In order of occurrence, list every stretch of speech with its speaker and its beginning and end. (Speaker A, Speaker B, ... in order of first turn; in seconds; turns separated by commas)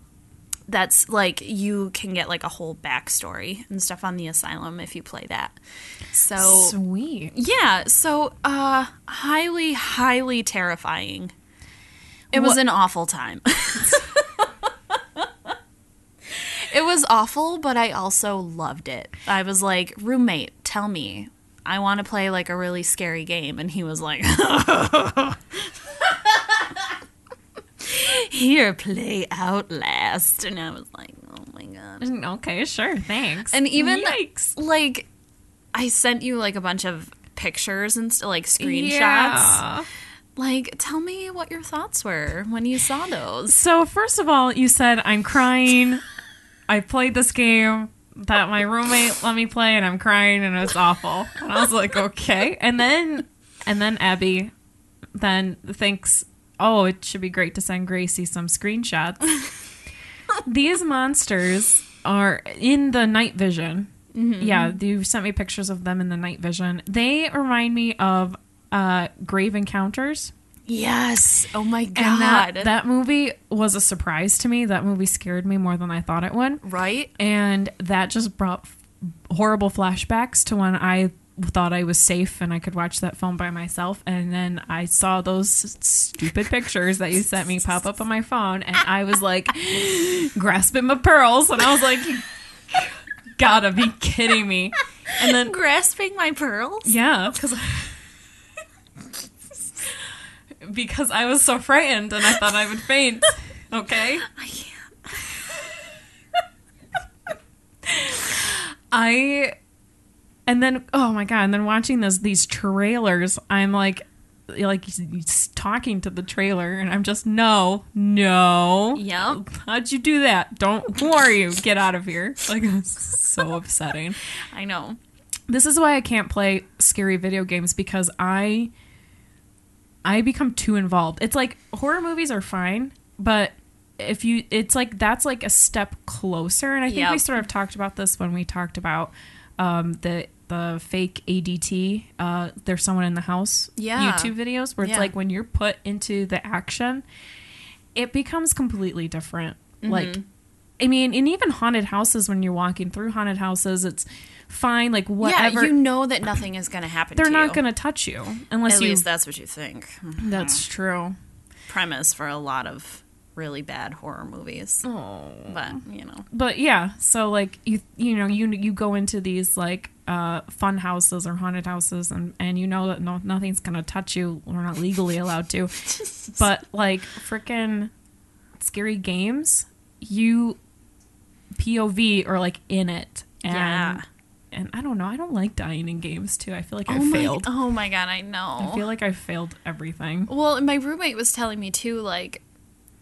Speaker A: 0.7-5.6, Speaker A: 6.1-6.7, Speaker B: 6.3-7.3, Speaker A: 7.3-11.3, Speaker B: 12.3-12.6, Speaker A: 12.3-14.4, Speaker A: 16.3-26.9, Speaker A: 27.8-32.0, Speaker B: 32.0-34.5, Speaker A: 33.5-35.1, Speaker A: 35.7-39.6, Speaker B: 38.6-39.9, Speaker A: 40.4-43.6, Speaker B: 43.5-46.0, Speaker B: 46.7-54.5, Speaker B: 55.1-59.4, Speaker B: 60.5-63.9, Speaker A: 64.1-64.8, Speaker B: 64.4-70.3, Speaker A: 70.7-72.7, Speaker B: 72.0-76.6, Speaker A: 76.6-77.1, Speaker B: 77.2-78.8, Speaker B: 79.3-95.5, Speaker A: 95.2-96.9, Speaker B: 96.8-98.0, Speaker B: 100.6-104.3, Speaker A: 104.2-104.9, Speaker B: 107.9-109.5, Speaker B: 110.5-124.2, Speaker A: 119.0-119.4, Speaker A: 124.5-125.0, Speaker B: 125.5-128.7, Speaker B: 130.0-147.0, Speaker A: 136.9-137.2, Speaker A: 143.8-145.1, Speaker B: 147.9-150.2, Speaker A: 149.8-150.2, Speaker B: 150.8-155.8, Speaker A: 155.2-157.6, Speaker B: 157.2-159.0, Speaker A: 158.7-160.6, Speaker B: 160.2-161.2, Speaker A: 161.7-164.8, Speaker B: 164.8-165.8, Speaker A: 165.4-166.3, Speaker B: 166.3-177.9, Speaker B: 178.6-180.6, Speaker B: 181.5-187.5, Speaker A: 183.5-184.0, Speaker A: 186.9-188.8, Speaker B: 188.6-190.3, Speaker A: 190.3-192.4